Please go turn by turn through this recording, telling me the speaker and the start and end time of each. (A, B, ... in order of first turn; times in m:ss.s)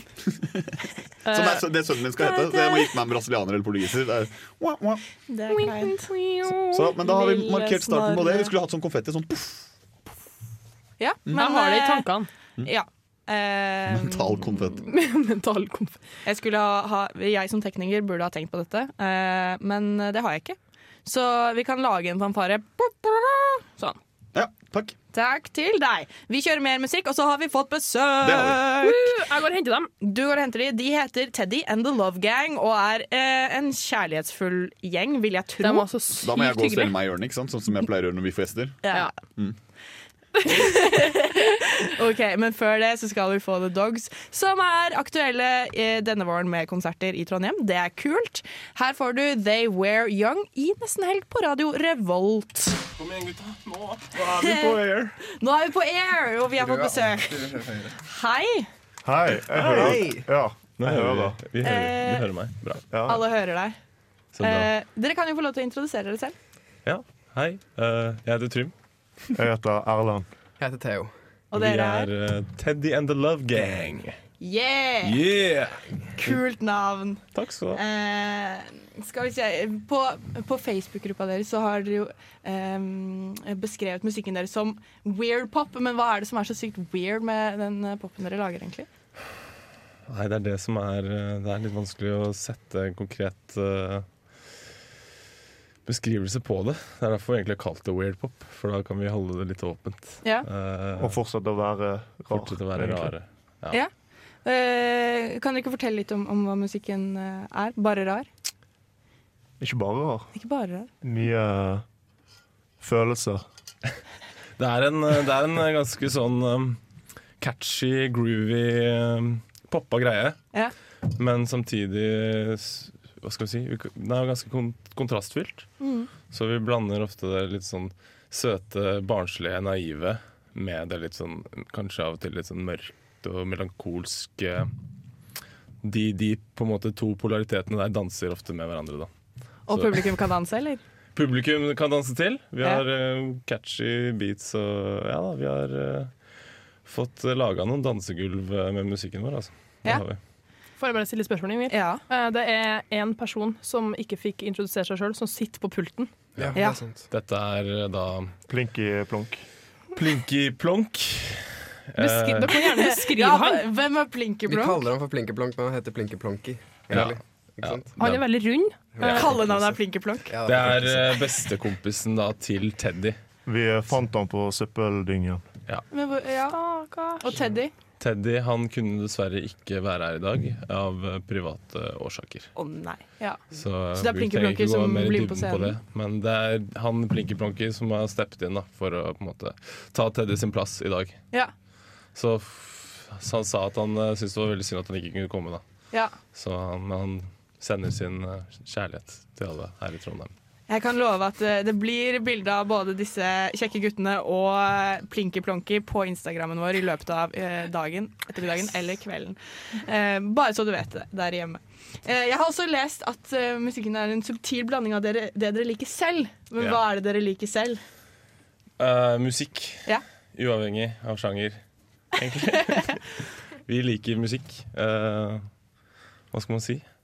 0:00.3-0:05.0 A
0:01.2-0:01.6 B
0:02.3-0:02.6 C
0:05.3-0:06.1 C
0:05.5-0:07.0 B
0:06.7-0:09.6 A
0:07.0-0:08.5 C
0:11.0-0:12.1 C
0:11.3-0:12.3 B
0:12.6-0:14.6 C
0:13.9-0:14.8 A
0:14.9-0:16.0 B
0:16.2-0:24.0 C
0:24.3-0:24.9 A
0:25.1-0:29.2 C
0:28.2-0:28.6 A
0:28.8-0:29.9 B
0:30.0-0:35.9 C
0:35.6-0:37.0 B
0:36.2-0:39.6 A
0:38.8-0:39.1 C
0:40.4-0:52.8 C
0:53.0-0:55.1 D
0:54.2-0:58.7 C
0:56.6-0:58.0 E
0:59.0-1:01.4 F
0:59.6-0:59.9 D
0:59.7-1:00.2 E
1:00.8-1:02.8 D
1:01.6-1:02.3 C
1:02.9-1:03.2 F
1:03.0-1:03.7 C
1:04.3-1:04.7 D
1:04.4-1:06.3 C
1:06.8-1:08.7 D
1:09.4-1:10.3 F
1:10.6-1:11.1 E
1:11.5-1:12.1 C
1:11.5-1:14.2 D
1:14.4-1:15.2 C
1:15.0-1:16.4 D
1:16.2-1:28.9 C
1:17.3-1:17.8 D
1:30.1-1:34.1 D
1:35.8-1:41.2 D
1:41.0-1:43.1 F
1:42.3-1:43.8 D
1:44.4-1:48.3 C
1:49.6-1:50.3 F
1:50.3-1:50.9 C
1:51.0-1:51.8 F
1:52.8-1:53.4 F
1:54.6-1:56.8 D
1:57.4-2:00.4 D
2:01.1-2:05.7 D
2:05.8-2:06.1 C
2:06.3-2:14.7 D
2:15.8-2:19.1 D
2:19.7-2:20.8 C
2:19.7-2:20.1 D
2:21.1-2:26.1 D
2:26.8-2:30.2 D
2:30.8-2:36.1 B
2:31.7-2:32.0 C
2:36.4-2:37.1 E
2:36.5-2:36.8 C
2:37.1-2:38.3 D
2:38.5-2:39.4 F
2:39.9-2:42.5 D
2:42.0-2:43.7 B
2:42.5-2:44.8 C
2:44.5-2:48.0 E
2:46.9-2:48.2 D
2:48.0-2:48.8 B
2:48.9-2:51.2 E
2:49.0-2:49.3 D
2:49.0-2:50.3 C
2:50.4-2:53.2 D
2:53.4-2:55.4 F
2:55.9-2:56.6 C
2:56.5-2:57.4 B
2:57.2-2:57.7 C
2:58.0-3:02.5 D
3:02.6-3:03.4 C
3:03.5-3:11.2 D
3:04.0-3:05.7 C
3:12.1-3:15.6 D
3:16.3-3:20.3 D
3:20.7-3:37.8 C
3:38.8-3:41.6 D
3:42.1-3:43.1 D
3:43.6-3:45.5 D
3:46.3-3:46.8 D